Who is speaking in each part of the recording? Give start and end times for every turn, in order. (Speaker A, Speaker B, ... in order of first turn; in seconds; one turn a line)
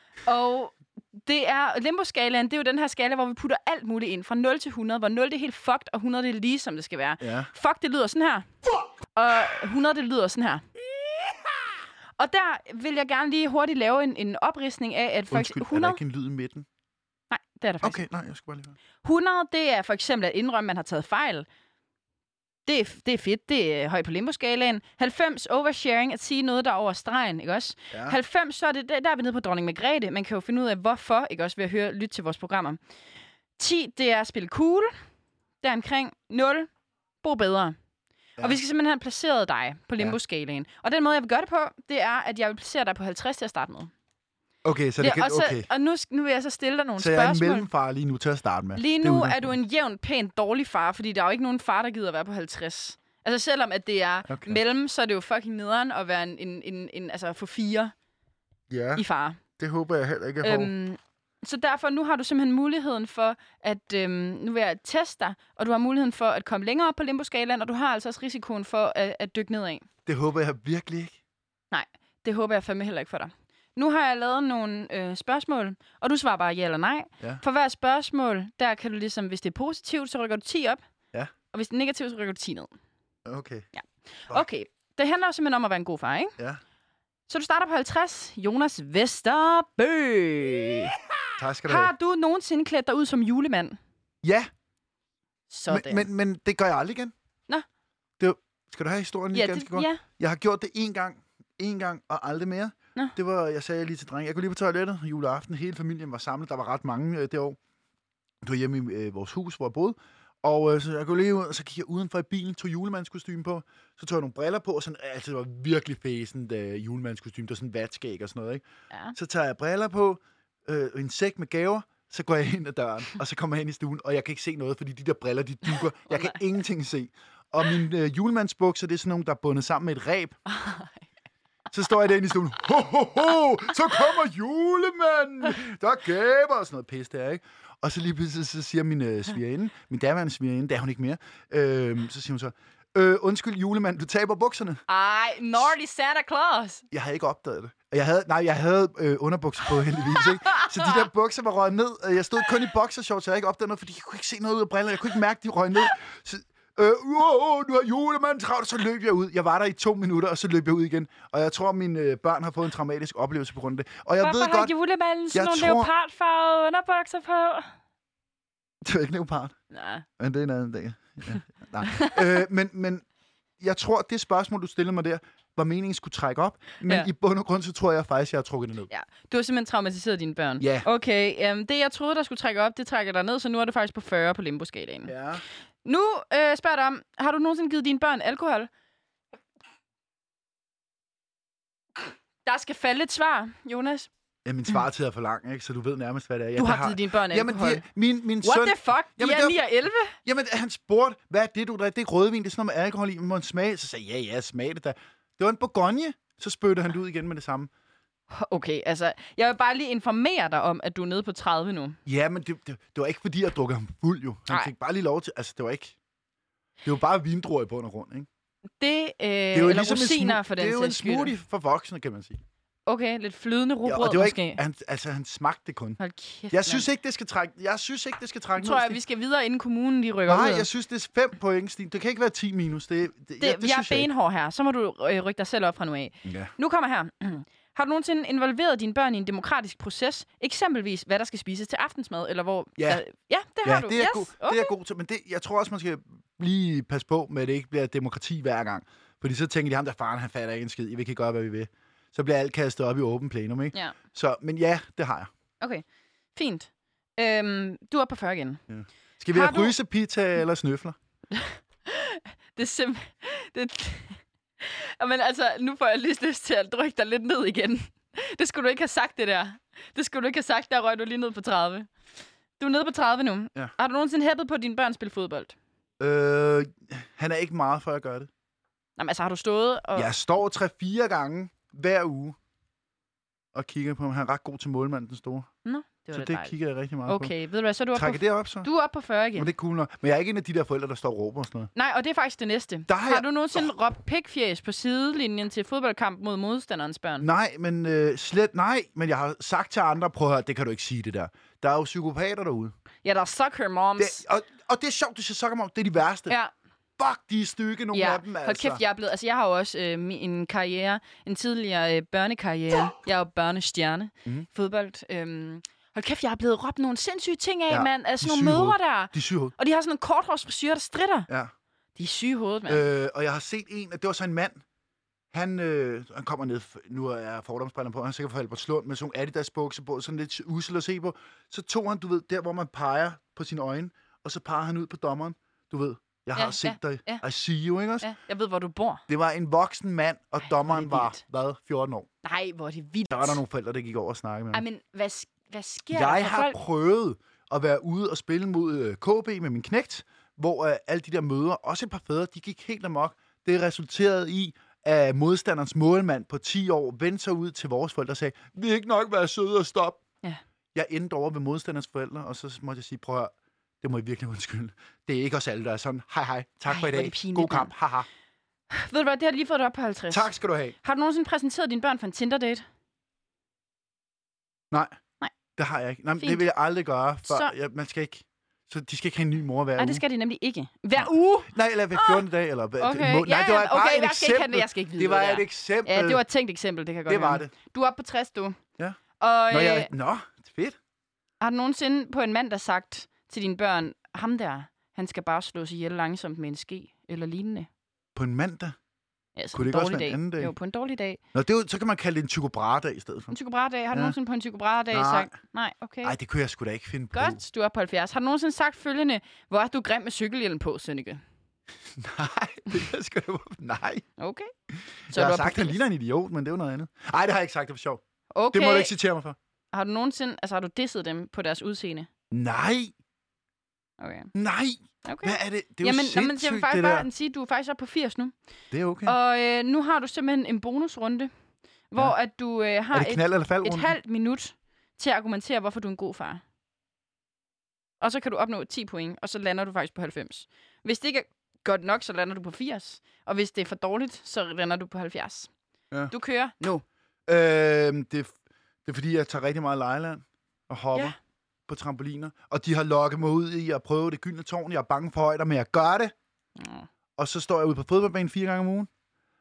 Speaker A: 0.2-8.5
Speaker B: 7.2-7.5
Speaker A: 9.2-10.6
Speaker A: 12.2-16.0
Speaker B: 15.3-16.7
Speaker A: 17.3-18.1
Speaker B: 17.8-18.8
Speaker A: 19.0-21.4
Speaker A: 22.6-32.8
Speaker B: 27.9-28.2
Speaker A: 33.6-34.9
Speaker A: 35.6-36.7
Speaker A: 37.2-37.8
Speaker A: 38.4-43.9
Speaker B: 44.6-45.7
Speaker A: 45.0-47.7
Speaker B: 47.0-49.5
Speaker A: 48.8-57.9
Speaker B: 54.3-54.6
Speaker B: 58.7-59.0
Speaker A: 59.0-59.4
Speaker B: 59.6-60.7
Speaker A: 60.4-69.8
Speaker B: 70.0-71.2
Speaker A: 71.7-80.8
Speaker A: 81.5-82.7
Speaker B: 83.2-83.7
Speaker A: 83.7-86.3
Speaker A: 87.3-90.9
Speaker B: 91.4-91.9
Speaker A: 91.7-93.8
Speaker B: 94.2-94.5
Speaker A: 95.5-96.1
Speaker B: 95.7-97.1
Speaker B: 98.2-107.6
Speaker A: 99.3-100.0
Speaker B: 108.4-118.6
Speaker B: 119.1-130.4
Speaker A: 126.1-126.4
Speaker A: 130.5-131.0
Speaker B: 131.7-144.8
Speaker A: 144.9-146.8
Speaker B: 146.9-164.7
Speaker A: 164.2-167.7
Speaker B: 165.3-165.9
Speaker B: 168.8-169.6
Speaker A: 169.7-170.1
Speaker B: 170.2-173.0
Speaker A: 171.9-172.1
Speaker B: 173.6-178.9
Speaker A: 178.9-185.1
Speaker B: 180.6-180.9
Speaker B: 185.1-185.4
Speaker A: 185.8-188.7
Speaker A: 192.4-194.1
Speaker B: 194.4-199.6
Speaker A: 196.6-197.8
Speaker A: 198.4-200.2
Speaker B: 200.1-207.7
Speaker A: 208.3-212.0
Speaker B: 212.1-215.9
Speaker B: 216.8-218.3
Speaker A: 218.8-221.3
Speaker B: 219.5-222.4
Speaker A: 222.9-224.6
Speaker B: 223.8-226.0
Speaker A: 226.0-226.8
Speaker B: 226.5-229.0
Speaker A: 228.6-230.7
Speaker B: 230.2-234.1
Speaker A: 233.4-244.7
Speaker B: 236.2-236.5
Speaker B: 242.8-243.0
Speaker B: 243.6-255.3
Speaker A: 256.3-258.6
Speaker B: 258.7-260.9
Speaker A: 259.3-259.7
Speaker A: 261.3-271.9
Speaker A: 272.6-275.6
Speaker B: 276.0-278.3
Speaker A: 279.0-280.1
Speaker B: 279.9-282.4
Speaker B: 283.5-285.5
Speaker A: 285.6-289.5
Speaker B: 286.1-287.3
Speaker B: 287.9-288.7
Speaker B: 289.3-291.7
Speaker A: 291.7-297.3
Speaker B: 292.9-293.7
Speaker B: 297.2-302.7
Speaker A: 303.0-304.2
Speaker B: 304.0-306.3
Speaker B: 307.0-308.8
Speaker A: 307.9-321.3
Speaker B: 317.7-319.5
Speaker A: 321.9-322.8
Speaker B: 322.7-324.6
Speaker B: 325.3-338.1
Speaker A: 336.4-337.2
Speaker A: 338.0-339.0
Speaker B: 339.1-342.1
Speaker A: 340.4-341.2
Speaker A: 342.2-343.4
Speaker B: 343.1-344.6
Speaker A: 344.5-346.6
Speaker B: 345.9-360.0
Speaker B: 360.7-368.1
Speaker A: 366.7-367.7
Speaker A: 368.7-370.3
Speaker B: 370.1-370.8
Speaker A: 370.8-372.6
Speaker B: 374.7-374.9
Speaker B: 375.6-380.0
Speaker A: 376.2-376.4
Speaker A: 377.3-377.5
Speaker A: 379.8-382.2
Speaker B: 380.9-386.2
Speaker A: 382.8-388.6
Speaker B: 387.1-387.5
Speaker B: 388.8-390.8
Speaker A: 389.2-389.9
Speaker A: 391.4-397.7
Speaker B: 398.1-398.8
Speaker A: 399.4-401.2
Speaker B: 399.5-400.5
Speaker B: 401.3-403.3
Speaker A: 403.3-406.1
Speaker B: 404.9-405.3
Speaker B: 406.0-407.4
Speaker A: 407.1-411.2
Speaker B: 411.9-414.1
Speaker A: 414.2-414.5
Speaker A: 415.1-415.8
Speaker B: 415.1-418.0
Speaker A: 418.3-418.9
Speaker B: 418.5-419.4
Speaker A: 419.7-422.1
Speaker B: 422.3-422.9
Speaker A: 424.0-424.3
Speaker B: 424.3-427.1
Speaker A: 425.0-428.3
Speaker B: 428.7-429.1
Speaker A: 429.0-431.3
Speaker A: 431.9-436.4
Speaker B: 432.9-433.9
Speaker A: 438.0-445.5
Speaker A: 446.1-446.8
Speaker B: 447.3-451.1
Speaker B: 451.7-456.1
Speaker A: 456.6-456.9
Speaker B: 457.2-458.9